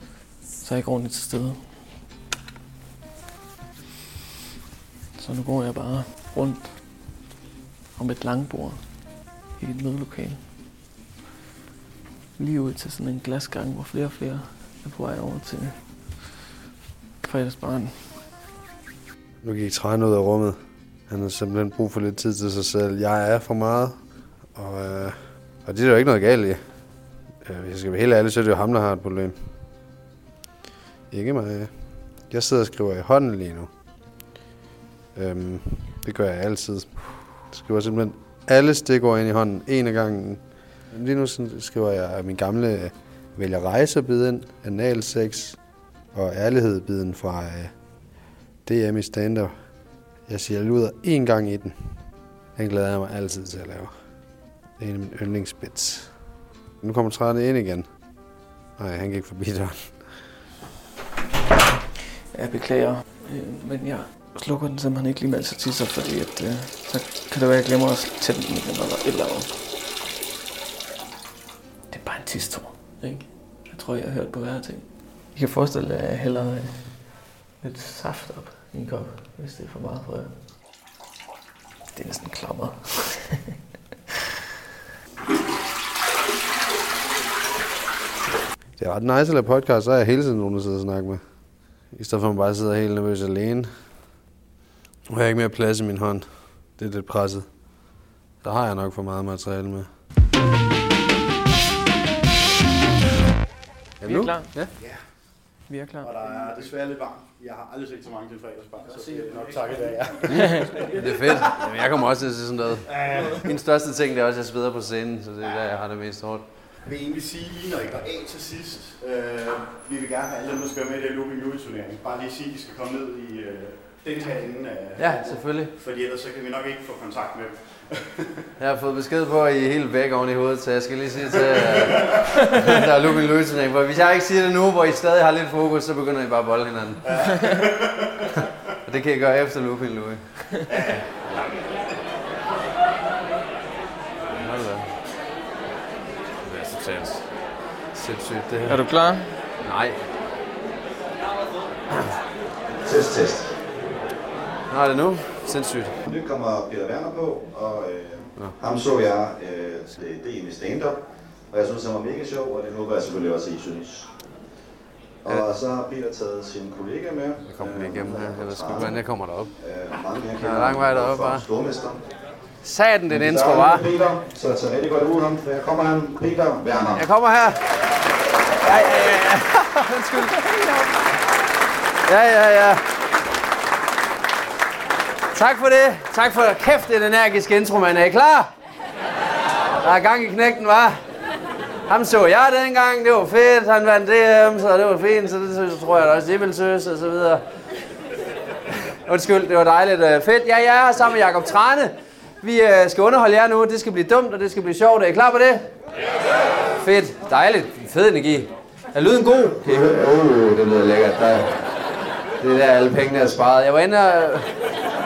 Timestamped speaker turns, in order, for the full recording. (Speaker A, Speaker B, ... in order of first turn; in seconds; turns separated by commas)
Speaker A: 0.6-1.8, Speaker A: 5.2-6.8, Speaker A: 8.0-10.4, Speaker A: 12.4-16.1, Speaker A: 17.2-18.2, Speaker B: 19.4-26.7, Speaker B: 27.4-29.4, Speaker B: 31.1-33.7, Speaker B: 35.1-48.0, Speaker B: 48.6-60.2, Speaker A: 62.3-69.5, Speaker A: 71.9-80.3, Speaker A: 81.9-83.4, Speaker B: 88.8-91.2, Speaker B: 91.8-93.7, Speaker B: 95.1-99.9, Speaker B: 104.0-104.7, Speaker A: 104.0-104.5, Speaker C: 104.8-111.6, Speaker A: 105.7-106.1, Speaker A: 110.3-110.7, Speaker B: 110.3-116.5, Speaker C: 112.8-113.5, Speaker C: 116.8-128.3, Speaker B: 125.0-125.7, Speaker B: 128.6-137.1, Speaker C: 131.7-132.2, Speaker C: 137.0-138.4, Speaker B: 138.8-140.6, Speaker C: 140.7-141.6, Speaker B: 144.3-144.9, Speaker B: 146.4-147.4, Speaker B: 147.9-148.8, Speaker A: 148.7-149.4, Speaker B: 149.6-150.0, Speaker D: 152.8-153.6, Speaker B: 154.7-156.0, Speaker D: 156.1-164.1, Speaker D: 165.2-169.0, Speaker B: 167.4-169.5, Speaker D: 169.6-172.0, Speaker B: 170.4-171.4, Speaker B: 172.6-173.9, Speaker D: 173.1-177.0, Speaker B: 176.9-177.7, Speaker B: 178.6-180.8, Speaker B: 182.0-182.8, Speaker B: 185.3-188.5, Speaker B: 189.8-191.0, Speaker B: 191.9-197.4, Speaker B: 198.9-205.7, Speaker B: 206.7-211.6, Speaker B: 212.4-214.5